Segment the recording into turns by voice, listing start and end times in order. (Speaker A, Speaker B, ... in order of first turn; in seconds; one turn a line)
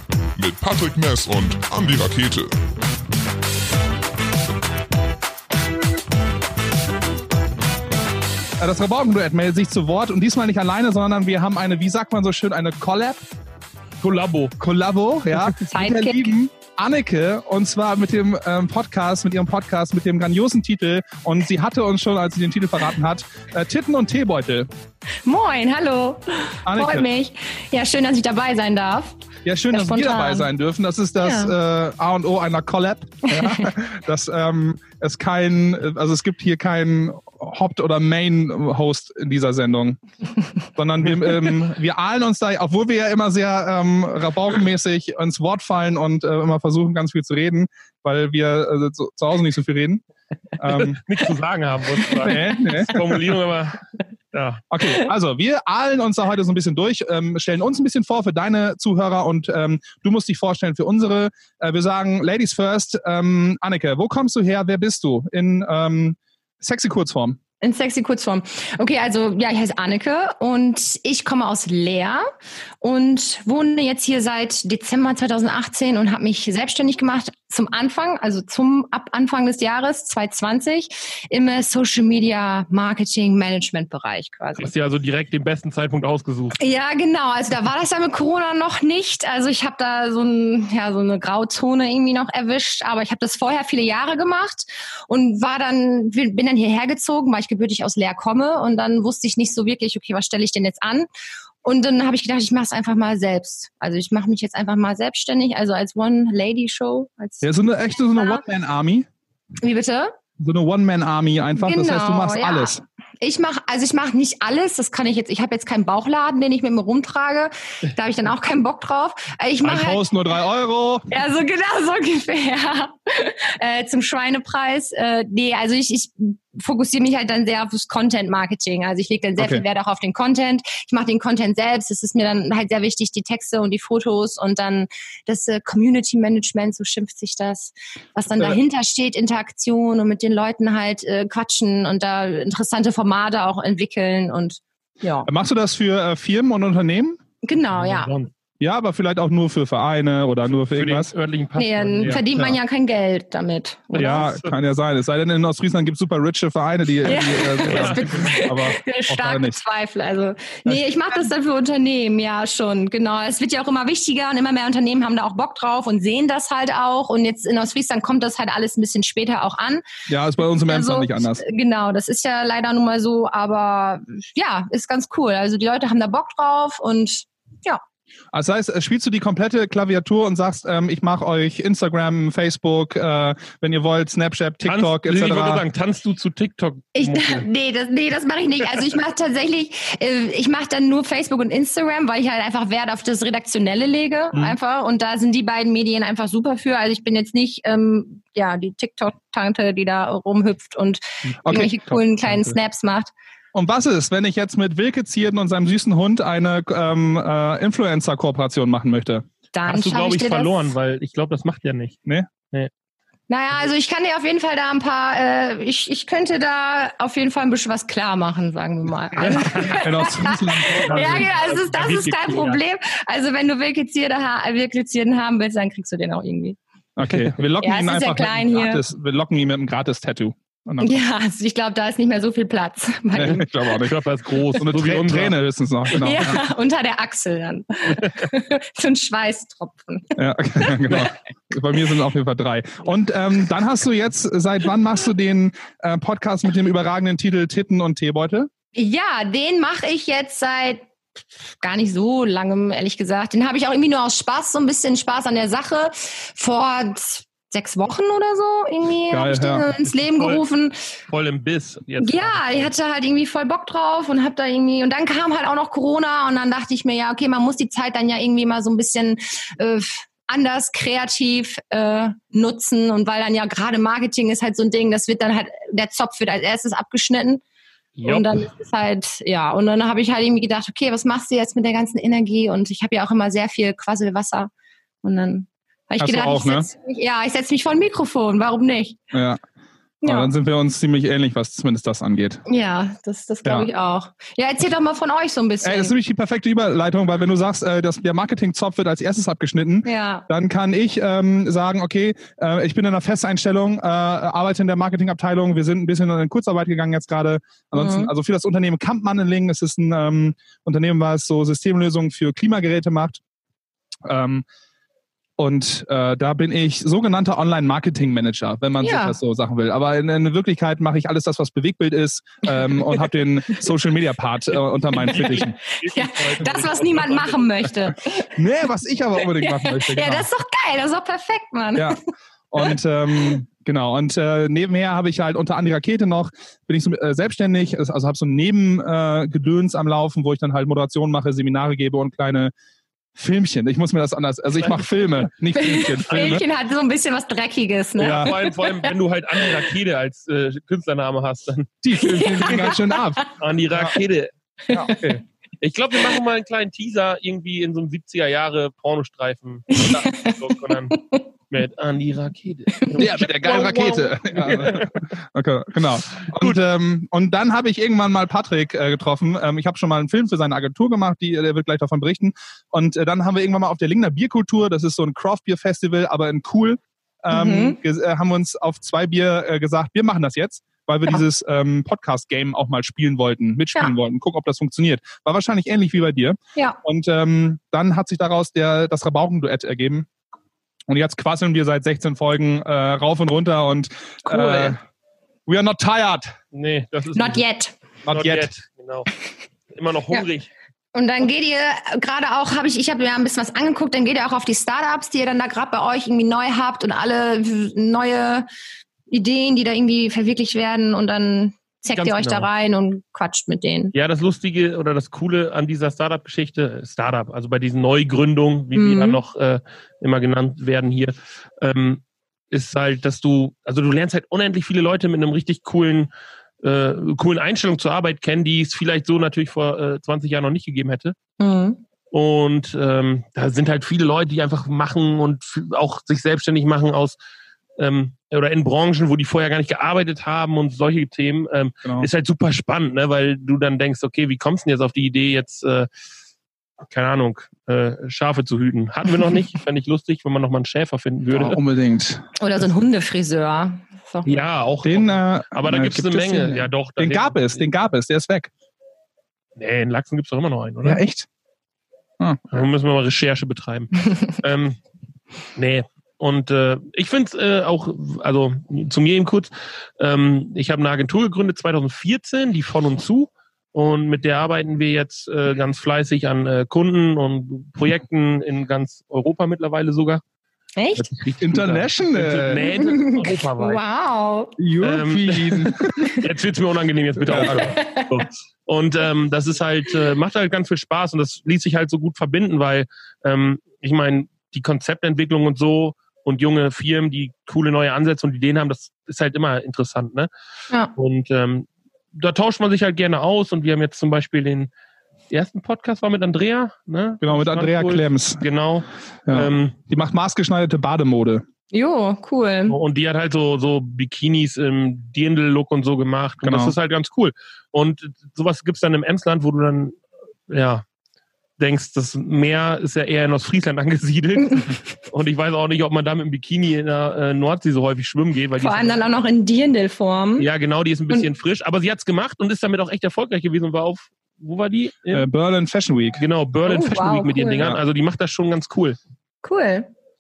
Speaker A: 0.4-2.6
Speaker B: 8.6-13.2
Speaker C: 14.0-14.6
Speaker B: 14.6-24.7
Speaker D: 15.7-16.4
Speaker D: 25.2-29.2
Speaker B: 26.7-27.1
Speaker B: 29.4-40.0
Speaker D: 29.7-30.5
Speaker D: 31.2-31.5
Speaker D: 33.3-33.8
Speaker B: 40.8-50.0
Speaker B: 50.6-51.0
Speaker C: 50.8-53.8
Speaker B: 52.2-53.4
Speaker C: 54.3-54.6
Speaker B: 54.7-67.4
Speaker D: 67.6-72.3
Speaker D: 72.8-84.7
Speaker C: 84.6-86.6
Speaker D: 86.6-101.1
Speaker D: 101.6-107.5
Speaker B: 107.4-109.1
Speaker D: 108.1-108.4
Speaker D: 109.6-110.2
Speaker B: 110.4-112.8
Speaker D: 111.6-120.0
Speaker B: 119.6-121.1
Speaker D: 121.1-145.3
Speaker B: 129.4-129.6
Speaker B: 145.3-147.2
Speaker D: 147.4-148.1
Speaker C: 147.7-148.3
Speaker B: 148.6-151.1
Speaker C: 150.7-152.5
Speaker D: 151.6-154.2
Speaker B: 152.0-152.3
Speaker C: 153.9-154.5
Speaker B: 153.9-159.6
Speaker D: 157.0-169.8
Speaker C: 157.6-158.3
Speaker B: 160.7-161.1
Speaker B: 170.1-171.4
Speaker D: 170.6-177.8
Speaker B: 178.3-185.6
Speaker C: 184.7-187.5
Speaker D: 186.9-203.1
Speaker B: 201.4-202.6
Speaker B: 203.5-209.3
Speaker D: 209.5-210.7
Speaker C: 209.7-212.0
Speaker D: 213.3-226.6
Speaker C: 219.2-219.8
Speaker B: 219.6-221.3
Speaker C: 220.8-222.6
Speaker B: 227.0-231.0
Speaker D: 227.6-228.8
Speaker D: 230.8-233.5
Speaker B: 233.1-233.9
Speaker C: 233.8-235.4
Speaker B: 234.6-236.4
Speaker D: 236.0-241.1
Speaker B: 240.2-248.5
Speaker D: 248.8-250.9
Speaker D: 251.4-260.8
Speaker B: 259.1-259.7
Speaker C: 260.1-260.4
Speaker C: 261.1-262.7
Speaker D: 262.0-277.4
Speaker C: 278.0-278.5
Speaker D: 278.1-284.5
Speaker D: 285.0-289.0
Speaker B: 286.0-286.7
Speaker B: 289.1-289.4
Speaker D: 290.0-290.3
Speaker B: 290.0-292.4
Speaker D: 292.5-295.9
Speaker B: 295.6-313.2
Speaker D: 299.8-300.3
Speaker D: 307.7-308.1
Speaker B: 314.1-314.4
Speaker B: 315.4-325.6
Speaker D: 318.8-319.2
Speaker D: 322.6-323.0
Speaker D: 324.9-328.3
Speaker C: 325.0-327.7
Speaker B: 328.3-330.3
Speaker D: 329.2-332.0
Speaker B: 332.5-342.5
Speaker B: 343.1-346.4
Speaker C: 344.6-344.9
Speaker D: 345.5-348.9
Speaker C: 346.1-346.4
Speaker C: 348.0-351.7
Speaker B: 348.0-348.4
Speaker B: 351.8-354.0
Speaker D: 352.0-353.3
Speaker C: 353.4-354.3
Speaker D: 354.7-355.2
Speaker B: 354.7-355.2
Speaker C: 355.6-365.0
Speaker D: 359.7-361.2
Speaker B: 363.0-390.1
Speaker C: 366.2-366.6
Speaker D: 377.3-377.8
Speaker B: 390.9-394.8
Speaker D: 394.3-394.8
Speaker B: 395.5-396.4
Speaker C: 396.5-397.4
Speaker D: 397.1-397.8
Speaker B: 398.1-398.5
Speaker C: 398.1-399.1
Speaker C: 399.7-400.5
Speaker D: 400.9-408.5
Speaker D: 409.1-413.9
Speaker C: 411.9-412.5
Speaker C: 413.9-426.1
Speaker D: 418.8-419.2
Speaker C: 426.6-431.2
Speaker D: 431.4-431.8
Speaker C: 432.1-437.2
Speaker C: 437.8-445.9
Speaker C: 446.9-451.6
Speaker B: 451.3-452.3
Speaker D: 452.4-454.4
Speaker C: 454.2-457.6
Speaker B: 454.8-458.5
Speaker C: 459.6-461.0
Speaker B: 460.8-461.3
Speaker B: 462.2-462.6
Speaker C: 462.5-464.8
Speaker C: 465.6-480.2
Speaker D: 480.8-481.1
Speaker C: 481.0-483.8
Speaker B: 481.4-482.7
Speaker D: 482.7-484.6
Speaker B: 484.6-486.2
Speaker C: 484.8-500.3
Speaker B: 487.2-487.8
Speaker D: 487.4-488.2
Speaker C: 500.9-504.7
Speaker C: 505.3-509.7
Speaker B: 507.2-508.4
Speaker B: 509.3-511.4
Speaker D: 511.7-512.8
Speaker C: 512.7-520.9
Speaker B: 516.4-516.8
Speaker C: 521.6-529.0
Speaker D: 528.6-530.5
Speaker C: 530.4-535.3
Speaker B: 535.1-536.2
Speaker C: 536.2-539.0
Speaker D: 536.6-537.7
Speaker D: 539.4-539.9